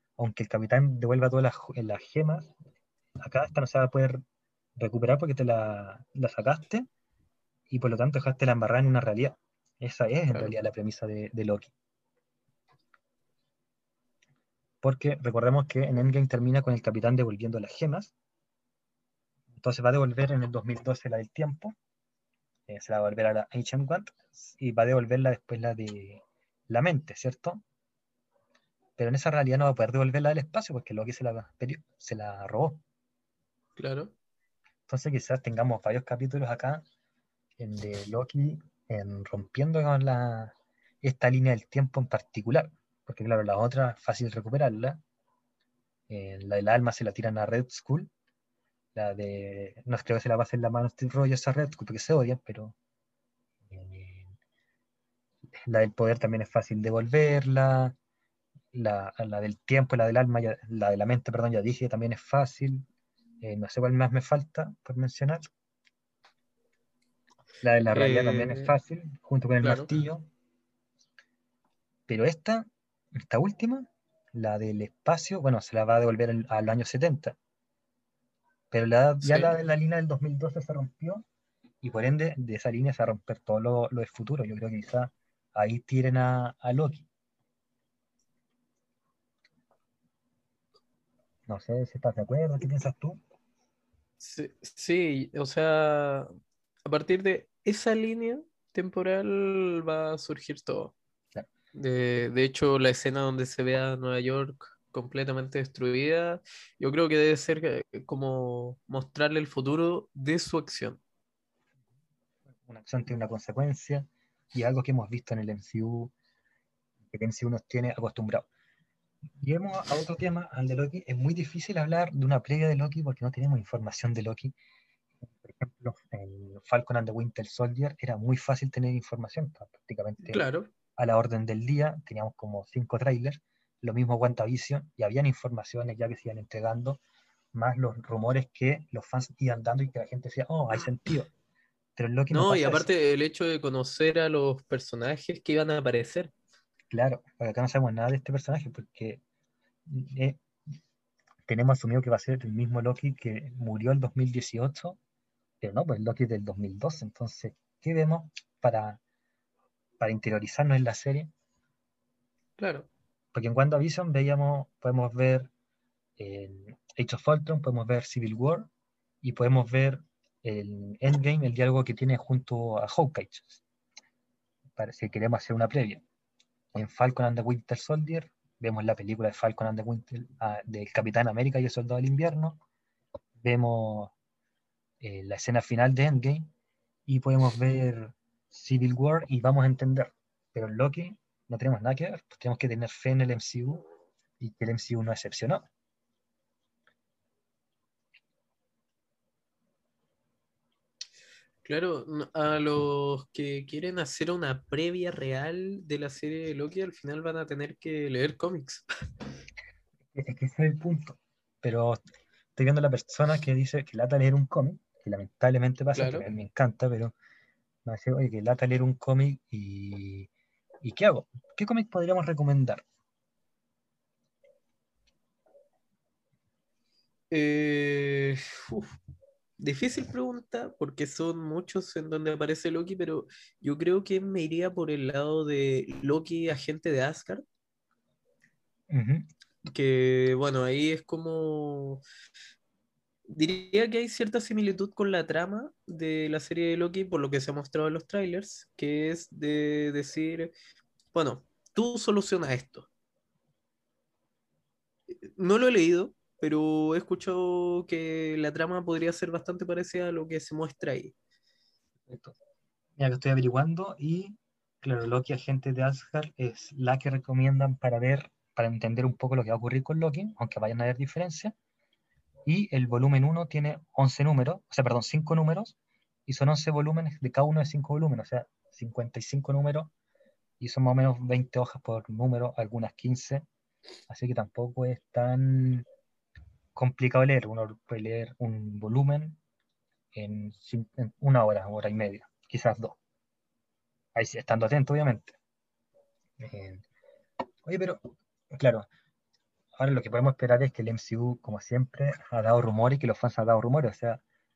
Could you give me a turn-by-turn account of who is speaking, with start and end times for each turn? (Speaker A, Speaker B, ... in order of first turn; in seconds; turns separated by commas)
Speaker A: 0.2-2.5, Speaker A: 3.2-4.2, Speaker A: 4.8-6.9, Speaker A: 7.7-11.7, Speaker A: 14.8-18.1, Speaker A: 19.6-21.7, Speaker A: 22.7-27.6, Speaker A: 29.0-32.8, Speaker B: 33.8-34.1, Speaker A: 34.9-36.8, Speaker A: 37.6-45.0, Speaker A: 46.1-48.1, Speaker A: 48.9-52.7, Speaker A: 53.7-54.3, Speaker A: 55.7-58.0, Speaker A: 58.7-62.9, Speaker A: 63.4-65.5, Speaker A: 67.6-70.3, Speaker B: 67.9-68.7, Speaker B: 69.6-69.9, Speaker A: 72.1-77.3, Speaker A: 78.7-81.2, Speaker B: 79.2-79.5, Speaker A: 81.8-87.1, Speaker A: 91.5-93.2, Speaker B: 94.2-96.3, Speaker B: 96.8-100.9, Speaker B: 101.7-111.0, Speaker A: 112.6-116.1, Speaker A: 117.1-118.5, Speaker A: 119.4-124.5, Speaker A: 125.2-137.0, Speaker B: 130.3-130.7, Speaker A: 137.5-141.3, Speaker A: 141.9-142.9, Speaker B: 142.3-146.3, Speaker A: 146.9-149.2, Speaker A: 149.9-150.4, Speaker A: 151.5-155.0, Speaker A: 155.6-159.0, Speaker A: 160.0-161.3, Speaker B: 162.6-162.9, Speaker A: 163.3-165.5, Speaker A: 166.2-168.7, Speaker A: 169.2-173.6, Speaker A: 174.8-176.0, Speaker A: 176.7-182.6, Speaker A: 183.4-184.1, Speaker A: 185.0-186.5, Speaker A: 187.1-193.9, Speaker A: 194.4-195.7, Speaker B: 201.6-208.8, Speaker A: 210.1-212.0, Speaker A: 212.6-217.1, Speaker B: 215.9-216.2, Speaker A: 217.8-220.3, Speaker A: 220.8-222.8, Speaker B: 227.3-228.9, Speaker B: 229.6-237.4, Speaker A: 238.9-239.3, Speaker B: 239.7-242.0, Speaker B: 243.3-250.5, Speaker B: 251.1-252.9, Speaker B: 255.4-261.1, Speaker A: 262.1-262.4, Speaker A: 263.0-271.5, Speaker A: 272.4-275.8, Speaker A: 276.3-279.9, Speaker A: 280.6-283.4, Speaker A: 284.1-285.9, Speaker A: 286.7-289.4, Speaker A: 290.1-293.0, Speaker A: 294.1-295.3, Speaker A: 296.4-296.8, Speaker A: 297.6-298.9, Speaker A: 299.8-304.2